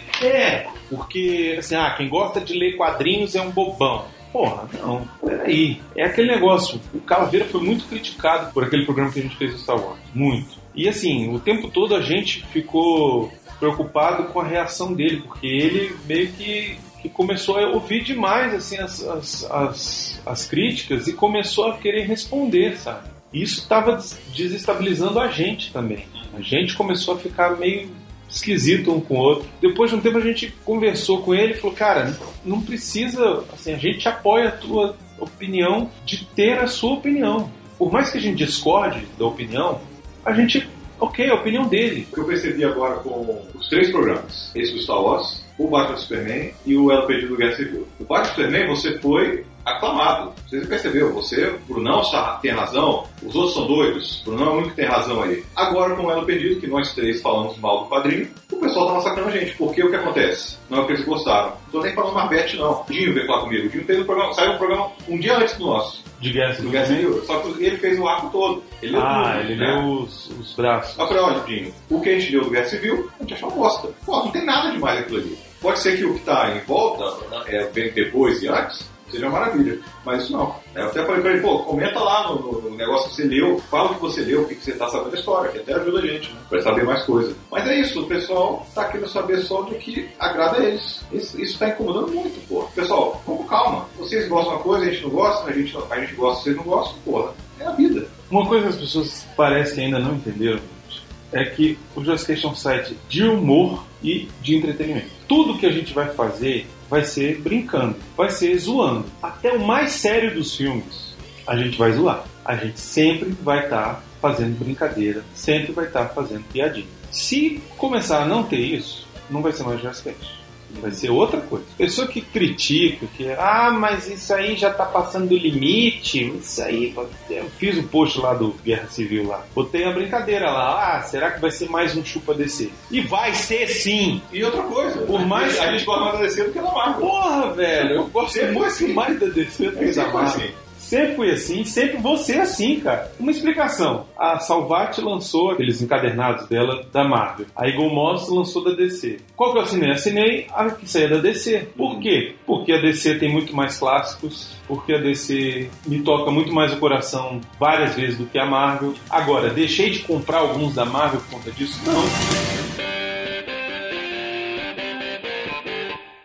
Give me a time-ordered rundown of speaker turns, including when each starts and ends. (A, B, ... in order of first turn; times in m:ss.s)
0:00.2-0:42.1 A
0:42.1-1:06.0 B
1:06.2-1:07.1 A
1:06.6-1:09.9 B
1:08.9-1:11.2 A
1:11.0-1:38.1 B
1:38.3-2:14.3 A
2:14.3-2:17.1 B
2:15.1-2:15.9 A
2:17.0-2:42.2 A
2:17.8-2:19.2 B
2:19.7-2:20.5 B